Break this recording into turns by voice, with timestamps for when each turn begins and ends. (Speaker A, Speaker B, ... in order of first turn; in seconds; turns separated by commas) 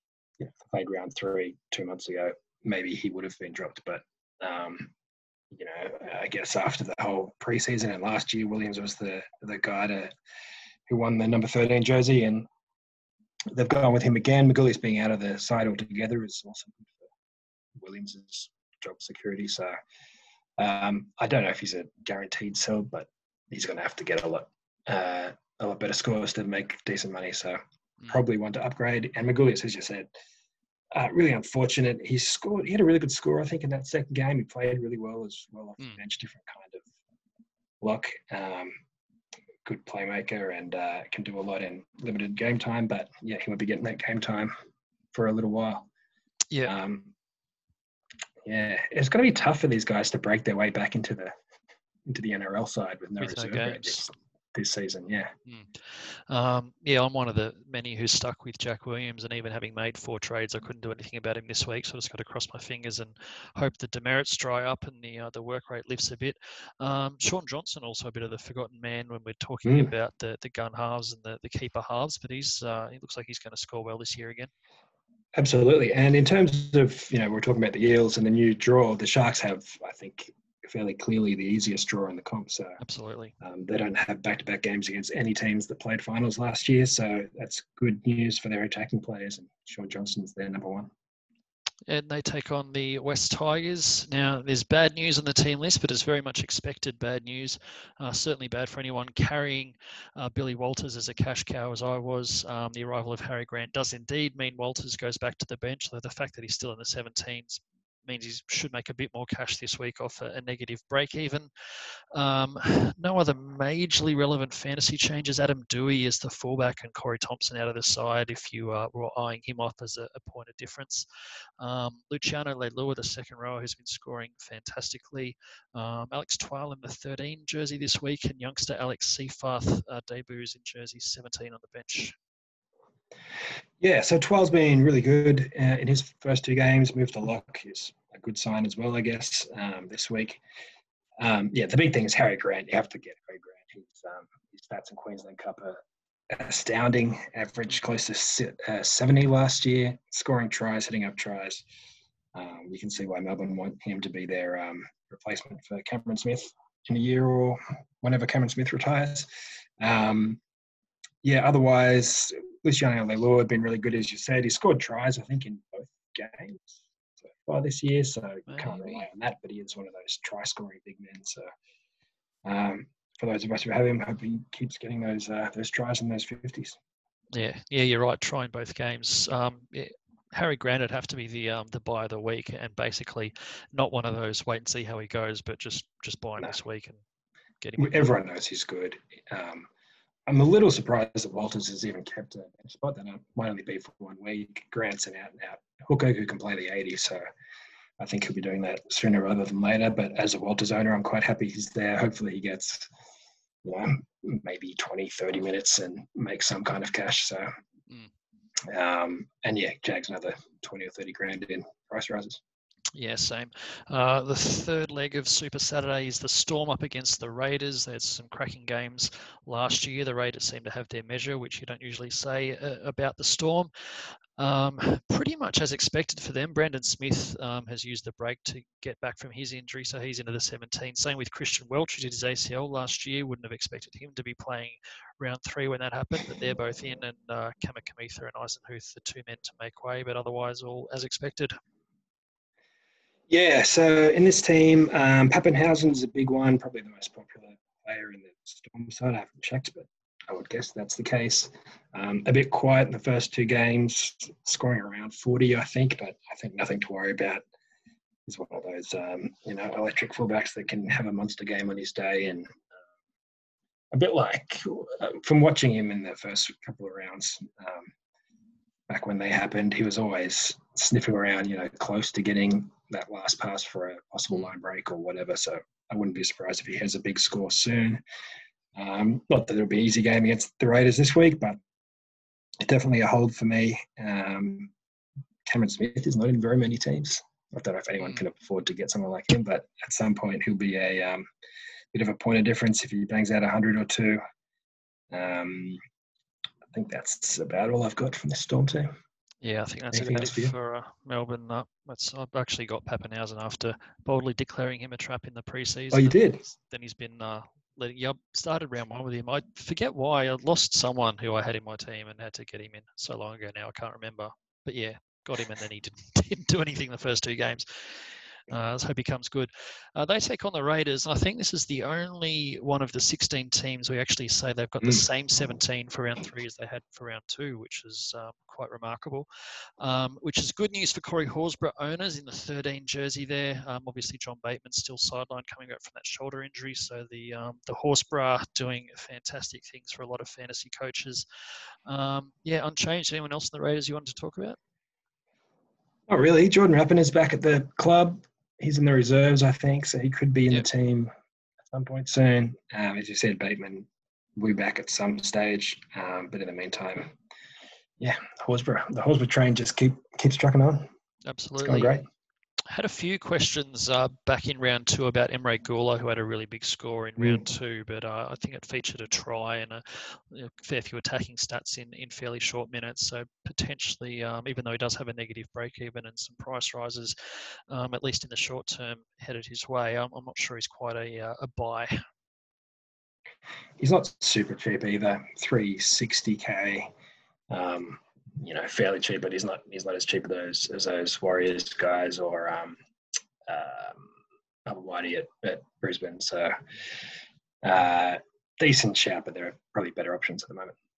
Speaker A: 0.4-4.9, Speaker A: 5.5-10.1, Speaker A: 10.9-12.5, Speaker A: 13.5-17.0, Speaker A: 17.8-19.8, Speaker A: 20.6-30.1, Speaker A: 30.9-36.8, Speaker A: 37.8-38.8, Speaker A: 39.6-44.5, Speaker A: 45.1-45.9, Speaker A: 46.7-47.1, Speaker A: 48.4-51.4, Speaker A: 52.1-55.3, Speaker B: 53.2-54.0, Speaker B: 56.3-74.5, Speaker A: 69.7-69.9, Speaker A: 75.3-82.8, Speaker B: 82.8-83.3, Speaker A: 83.4-90.9, Speaker B: 91.9-111.5, Speaker B: 112.1-121.1, Speaker B: 121.6-132.2, Speaker A: 133.8-140.4, Speaker A: 141.2-151.6, Speaker A: 152.3-159.3, Speaker A: 159.8-160.4, Speaker A: 161.2-166.8, Speaker A: 167.4-171.5, Speaker B: 168.5-169.0, Speaker A: 172.4-176.8, Speaker B: 177.3-187.0, Speaker B: 187.6-188.1, Speaker A: 187.8-189.7, Speaker A: 190.3-197.2, Speaker A: 198.0-202.9, Speaker A: 203.6-207.5, Speaker A: 208.7-212.4, Speaker B: 212.9-223.7, Speaker B: 224.4-241.6, Speaker A: 243.3-257.4, Speaker A: 258.3-262.6, Speaker A: 263.9-267.9, Speaker A: 268.9-278.0, Speaker A: 278.8-281.6, Speaker A: 282.6-284.7, Speaker A: 285.5-291.3, Speaker A: 291.9-294.2, Speaker A: 295.1-295.8, Speaker A: 296.7-298.9, Speaker B: 299.4-317.9, Speaker A: 299.9-300.5, Speaker A: 305.9-306.4, Speaker B: 318.5-329.3, Speaker B: 329.8-341.2, Speaker B: 341.9-344.6, Speaker A: 346.1-351.1, Speaker A: 351.7-357.1, Speaker A: 358.0-360.9, Speaker B: 361.3-361.9, Speaker A: 361.6-362.1, Speaker B: 362.7-377.1, Speaker B: 377.7-382.0, Speaker A: 383.8-386.9, Speaker A: 387.5-392.8, Speaker A: 393.4-394.1, Speaker A: 394.6-396.6, Speaker A: 397.6-400.8